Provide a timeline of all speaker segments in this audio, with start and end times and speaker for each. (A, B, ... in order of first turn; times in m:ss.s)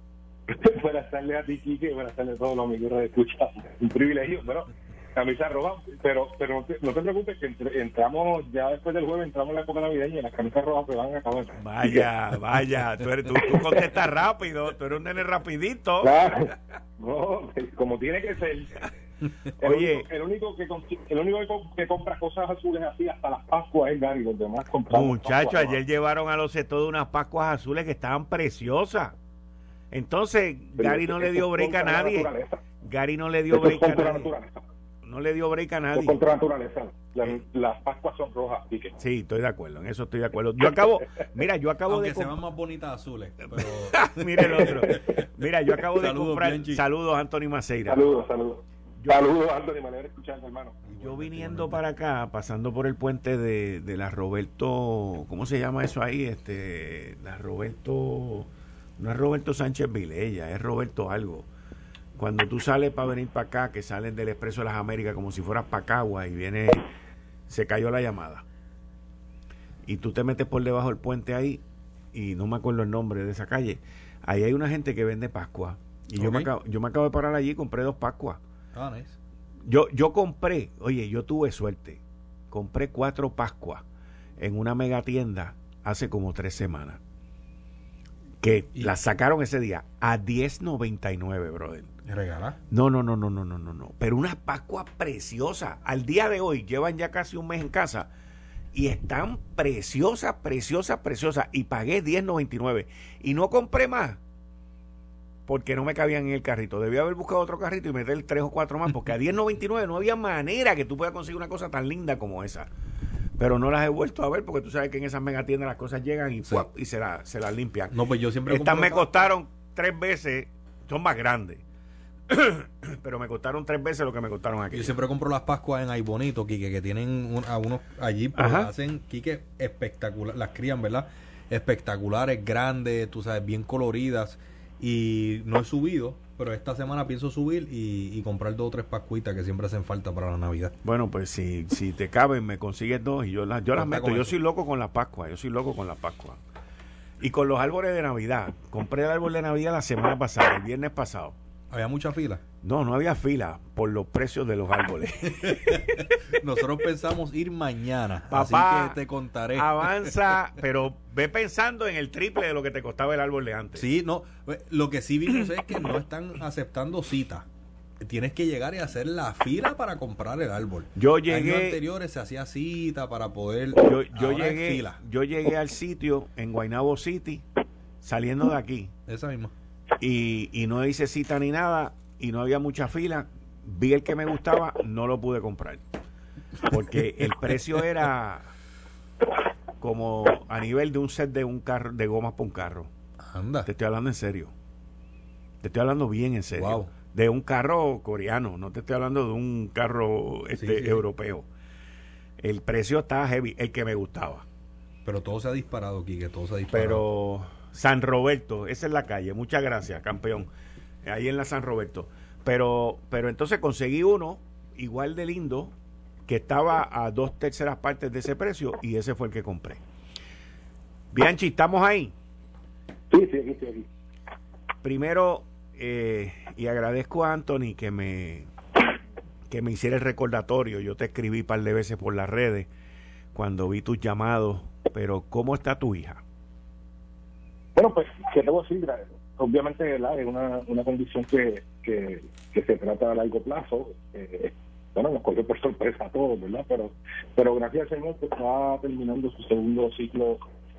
0:00.5-0:12.1 A
0:11.6-0:16.3 B
0:13.5-0:13.8 A
0:16.0-0:18.9 A
0:19.6-0:20.1 B
0:19.6-0:25.8 A
0:24.9-0:29.2 B
0:29.9-0:34.3 B
0:30.8-0:32.6 A
0:33.5-0:34.6 A
0:35.0-0:36.2 B
0:35.9-0:39.0 A
0:39.0-0:42.3 B
0:41.9-0:45.0 C
0:43.5-0:48.0 B
0:44.6-0:45.0 A
0:45.9-0:46.8 C
0:47.8-0:50.8 A
0:49.0-0:49.3 B
0:50.9-0:51.8 C
0:51.0-1:01.5 B
1:02.2-1:06.9 B
1:07.5-1:08.4 B
1:09.8-1:11.6 B
1:12.1-1:18.4 B
1:16.2-1:16.5 C
1:18.7-1:19.2 C
1:19.6-1:23.8 B
1:24.4-1:27.0 B
1:28.4-1:31.9 B
1:32.1-1:32.6 C
1:32.7-1:38.1 B
1:38.7-1:44.2 B
1:45.5-1:52.7 B
1:53.4-1:57.9 B
1:57.9-1:59.2 C
1:58.5-2:01.6 B
2:02.3-2:04.9 B
2:04.7-2:20.7 C
2:08.4-2:08.7 B
2:20.8-2:26.4 B
2:23.7-2:24.3 C
2:27.2-2:31.4 B
2:31.7-2:32.4 C
2:32.6-2:36.0 B
2:35.4-2:40.1 C
2:38.3-2:39.0 B
2:39.5-2:43.8 B
2:43.8-2:47.4 C
2:48.0-2:54.9 C
2:51.0-2:51.8 B
2:53.8-2:57.4 B
2:58.0-2:58.9 B
2:59.1-2:59.5 C
3:00.0-3:05.8 B
3:06.6-3:08.5 B
3:09.8-3:12.9 B
3:13.2-3:13.7 C
3:13.6-3:14.5 B
3:15.6-3:21.5 B
3:16.6-3:16.9 C
3:20.6-3:21.0 C
3:22.4-3:24.4 B
3:25.0-3:27.0 C
3:26.7-3:30.5 B
3:31.0-3:35.7 B
3:36.2-3:39.8 B
3:41.1-3:42.1 B
3:43.1-3:43.9 A
3:44.8-3:48.5 B
3:49.5-3:52.7 B
3:53.3-3:56.2 B
3:57.8-4:10.4 A